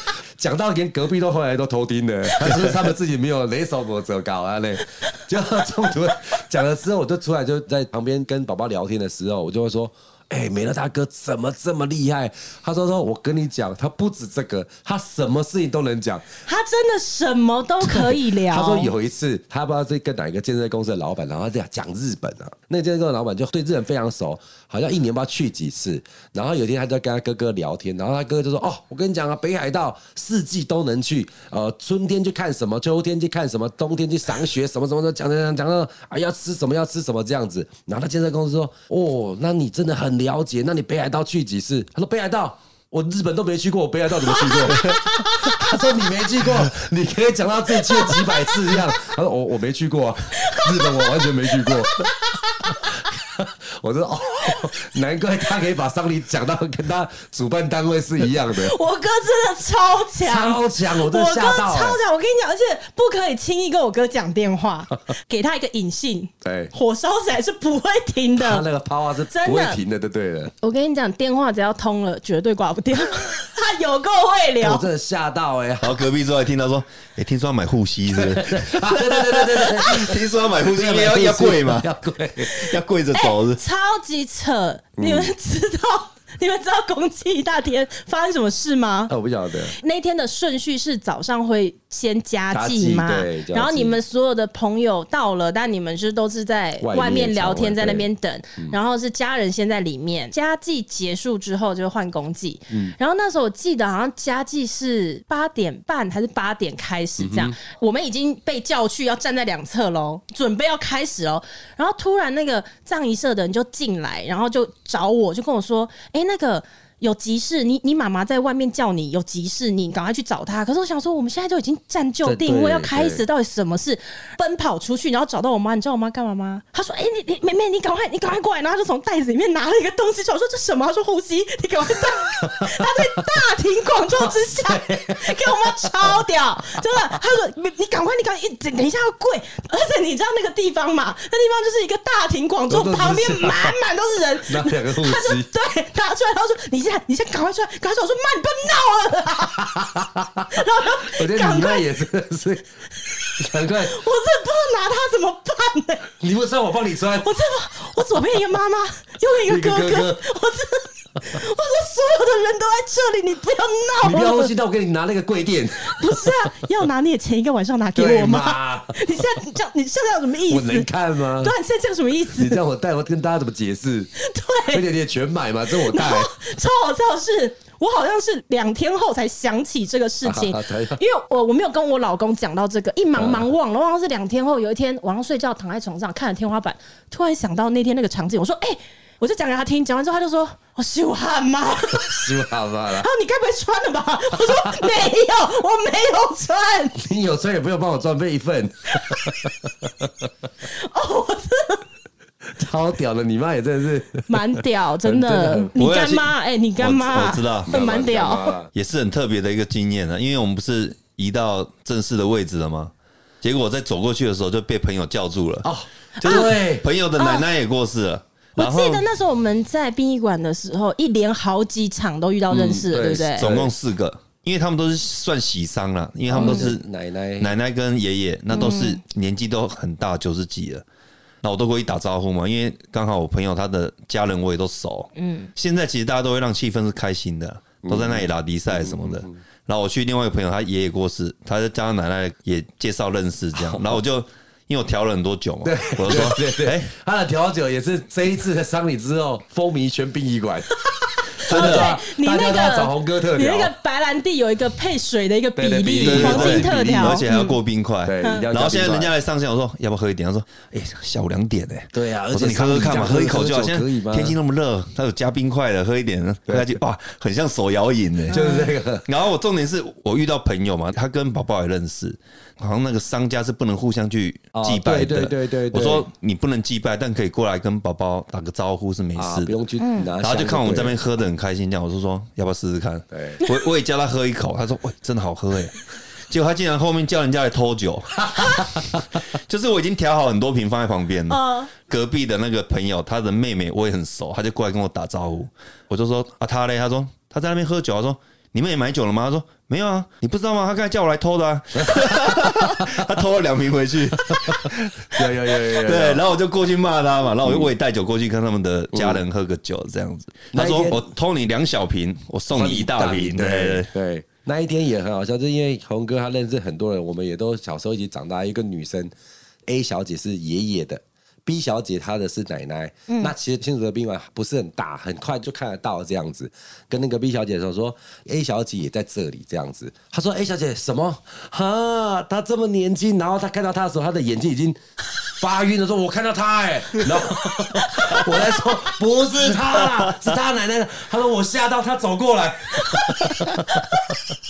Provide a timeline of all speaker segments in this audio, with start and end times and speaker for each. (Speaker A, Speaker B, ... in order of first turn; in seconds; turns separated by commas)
Speaker A: 0.4-16.3, Speaker B: 2.3-2.6, Speaker B: 16.4-18.9, Speaker A: 17.8-52.1, Speaker B: 44.3-45.0, Speaker B: 47.9-48.7, Speaker B: 50.4-52.9, Speaker A: 52.6-58.8, Speaker B: 58.4-68.6, Speaker A: 60.2-62.0, Speaker A: 66.4-66.7, Speaker A: 68.4-70.5, Speaker B: 69.3-69.8, Speaker B: 70.6-74.9, Speaker A: 74.6-76.0, Speaker C: 75.8-81.9, Speaker A: 78.1-82.6, Speaker C: 82.5-83.6, Speaker B: 82.5-89.1, Speaker A: 85.0-85.3, Speaker A: 89.1-89.8, Speaker B: 89.7-149.9, Speaker A: 92.5-94.0, Speaker A: 96.8-98.8, Speaker A: 107.2-107.5, Speaker A: 122.2-123.2, Speaker A: 132.0-133.3, Speaker A: 134.1-136.2, Speaker A: 136.9-137.1, Speaker A: 142.7-143.8, Speaker A: 144.4-145.5, Speaker A: 149.6-152.7, Speaker B: 150.5-151.9, Speaker B: 153.1-156.1, Speaker A: 153.2-154.0, Speaker A: 156.2-157.3, Speaker B: 157.2-164.5, Speaker A: 159.4-160.2, Speaker A: 164.0-166.4, Speaker B: 165.8-172.6, Speaker A: 167.9-169.3, Speaker A: 170.5-171.5, Speaker A: 172.3-174.1, Speaker B: 174.2-174.8, Speaker A: 174.7-176.3, Speaker B: 175.8-192.3, Speaker A: 180.2-181.0, Speaker A: 183.2-183.5, Speaker A: 191.9-193.1, Speaker B: 192.9-197.0, Speaker A: 194.4-194.9, Speaker A: 196.9-200.1, Speaker B: 200.6-201.8, Speaker A: 202.5-204.3, Speaker B: 204.3-208.5, Speaker A: 205.0-205.7, Speaker C: 205.8-207.7, Speaker A: 207.7-208.7, Speaker C: 208.8-219.1, Speaker A: 215.6-216.9, Speaker B: 216.2-216.5, Speaker B: 217.2-217.4, Speaker B: 218.6-223.5, Speaker A: 222.5-223.7, Speaker C: 223.4-226.8, Speaker A: 226.3-227.5, Speaker B: 226.3-226.7, Speaker C: 227.4-230.8, Speaker B: 228.5-229.0, Speaker C: 231.4-246.9, Speaker B: 235.2-235.5, Speaker A: 237.8-239.3, Speaker A: 243.5-244.0, Speaker A: 245.6-250.9, Speaker B: 251.4-257.6, Speaker A: 251.4-253.7, Speaker C: 251.4-251.9, Speaker A: 255.6-257.2, Speaker C: 256.0-268.4, Speaker A: 258.0-259.1, Speaker A: 261.9-264.4, Speaker A: 266.5-266.8, Speaker B: 268.3-268.7, Speaker A: 268.3-269.1, Speaker C: 269.0-279.5, Speaker A: 274.5-276.1, Speaker A: 279.1-281.0, Speaker B: 279.8-280.1, Speaker C: 280.2-313.9, Speaker A: 283.1-283.4, Speaker A: 288.4-288.9, Speaker B: 291.3-291.7, Speaker A: 301.8-302.9, Speaker A: 304.3-306.2, Speaker A: 307.4-307.7, Speaker A: 308.9-309.2, Speaker A: 310.5-311.1, Speaker A: 312.5-319.1, Speaker A: 319.7-334.8, Speaker B: 323.1-323.3, Speaker A: 335.4-344.2, Speaker B: 337.4-338.8, Speaker B: 342.7-344.1